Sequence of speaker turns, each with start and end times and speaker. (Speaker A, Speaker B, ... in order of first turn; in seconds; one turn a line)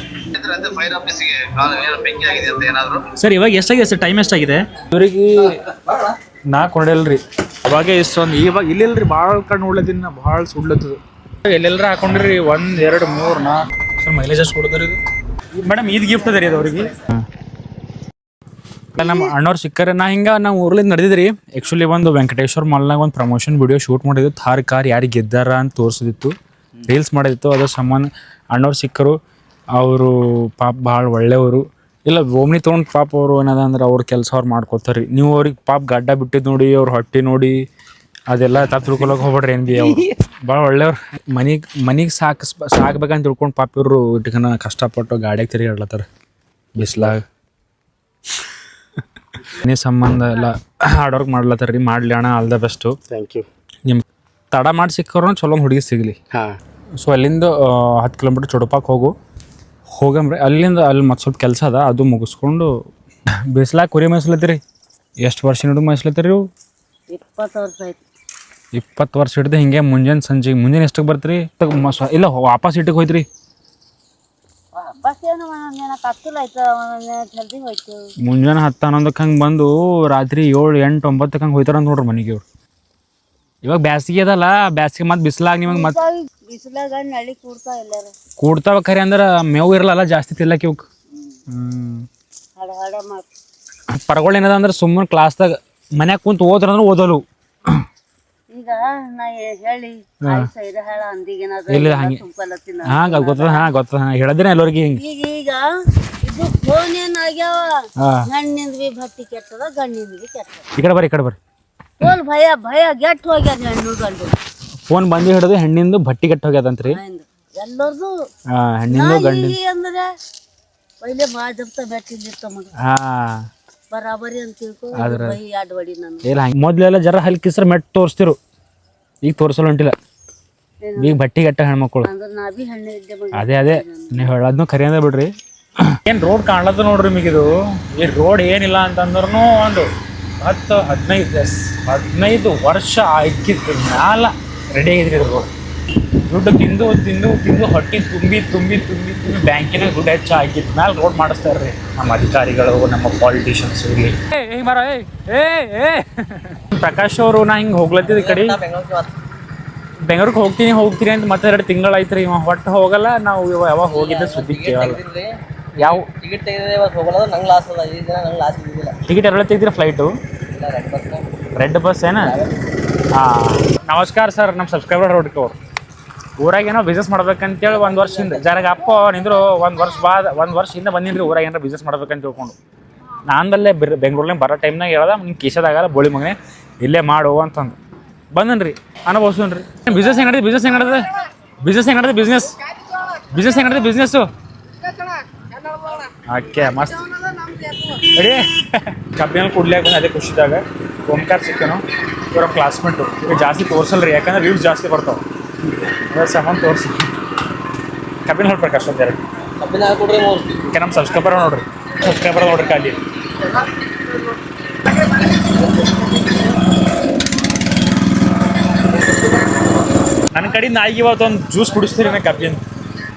Speaker A: 0.3-3.0
Speaker B: 3.2-5.6
Speaker B: 6.5-15.0
Speaker B: 15.5-17.2
Speaker B: 18.9-29.1
Speaker B: 29.8-37.6
Speaker B: 38.3-46.0
Speaker B: 46.8-47.2
Speaker B: 49.4-53.0
Speaker B: 53.8-56.2
Speaker B: 57.0-59.1
Speaker B: 59.9-62.7
Speaker B: 63.5-64.6
Speaker B: 65.2-66.5
Speaker C: 67.1-68.0
Speaker B: 68.7-73.2
Speaker C: 74.7-78.1
Speaker B: 78.2-82.4
Speaker B: 83.6-86.0
Speaker C: 85.6-88.1
Speaker B: 88.4-90.8
Speaker B: 91.5-92.1
Speaker C: 92.6-93.2
Speaker B: 93.9-97.8
Speaker C: 98.5-103.7
Speaker B: 101.7-102.2
Speaker B: 102.9-105.0
Speaker C: 105.0-110.7
Speaker B: 108.0-108.3
Speaker B: 110.8-111.4
Speaker C: 112.0-114.4
Speaker B: 114.9-117.0
Speaker C: 116.9-118.3
Speaker B: 118.5-119.6
Speaker C: 118.9-120.2
Speaker C: 121.0-122.7
Speaker B: 122.8-123.5
Speaker C: 123.9-126.3
Speaker B: 125.0-125.4
Speaker B: 126.2-128.4
Speaker B: 129.2-129.9
Speaker C: 130.8-131.2
Speaker B: 131.0-132.1
Speaker C: 132.0-134.3
Speaker B: 133.3-135.3
Speaker B: 136.0-139.9
Speaker B: 140.4-145.5
Speaker B: 146.2-158.6
Speaker D: 158.1-159.1
Speaker B: 160.0-165.0
Speaker D: 163.8-165.3
Speaker B: 165.8-166.1
Speaker D: 165.8-168.9
Speaker B: 169.1-170.2
Speaker D: 170.5-171.2
Speaker B: 171.5-172.3
Speaker D: 172.2-172.5
Speaker B: 173.1-175.6
Speaker B: 176.4-182.6
Speaker D: 177.7-178.4
Speaker B: 183.2-187.8
Speaker B: 188.3-192.6
Speaker B: 193.3-194.3
Speaker B: 196.3-197.1
Speaker B: 197.8-205.2
Speaker B: 206.1-207.0
Speaker B: 208.2-209.2
Speaker D: 209.6-210.5
Speaker B: 210.7-213.0
Speaker B: 220.3-222.6